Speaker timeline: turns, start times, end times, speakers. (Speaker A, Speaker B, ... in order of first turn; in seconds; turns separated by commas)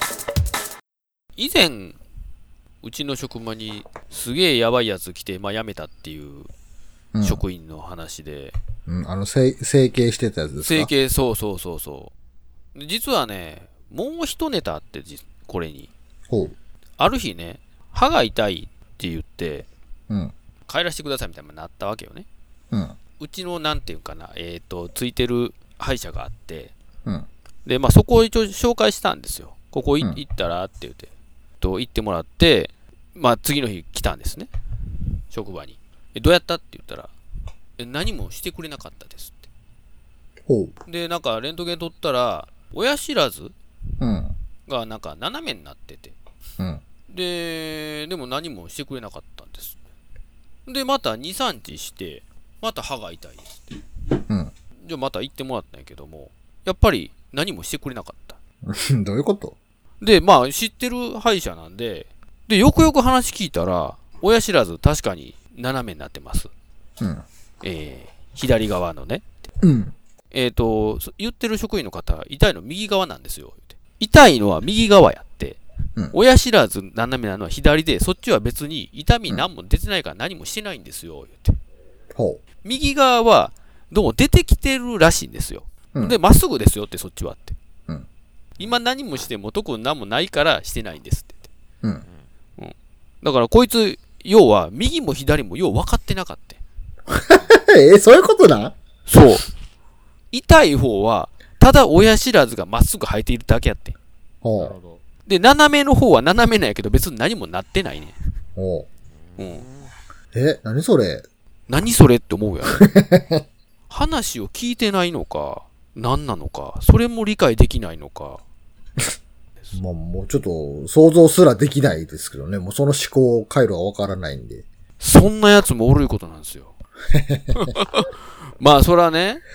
Speaker A: 1.4-2.0, Speaker A: 2.8-6.5, Speaker B: 7.1-7.4, Speaker A: 7.2-8.6, Speaker B: 8.9-10.9, Speaker A: 10.7-12.1, Speaker A: 12.8-15.9, Speaker B: 16.3-16.6, Speaker A: 17.0-19.7, Speaker A: 20.7-22.3, Speaker A: 23.2-26.7, Speaker A: 27.7-31.1, Speaker A: 31.6-34.5, Speaker A: 35.3-37.1, Speaker A: 37.8-39.5, Speaker B: 40.5-40.8, Speaker A: 40.9-43.5, Speaker B: 44.0-44.4, Speaker A: 44.7-46.2, Speaker A: 47.1-49.8, Speaker A: 50.7-53.8, Speaker A: 54.8-58.4, Speaker B: 58.6-59.6, Speaker A: 60.0-66.5, Speaker B: 67.0-67.2, Speaker A: 67.6-69.2, Speaker B: 69.6-70.0, Speaker A: 70.3-75.6, Speaker A: 76.1-81.6, Speaker B: 82.2-82.4, Speaker A: 82.6-87.6, Speaker A: 88.6-91.5, Speaker A: 92.6-96.6, Speaker B: 97.1-98.7, Speaker A: 99.1-99.5, Speaker A: 100.3-104.0, Speaker B: 104.4-104.8, Speaker A: 105.3-108.2, Speaker B: 108.6-108.9, Speaker A: 109.4-109.7, Speaker B: 110.3-111.2, Speaker A: 111.7-112.9, Speaker B: 112.7-113.4, Speaker A: 113.9-118.4, Speaker B: 119.7-124.6, Speaker A: 125.0-126.7, Speaker B: 127.1-127.7, Speaker A: 127.6-129.4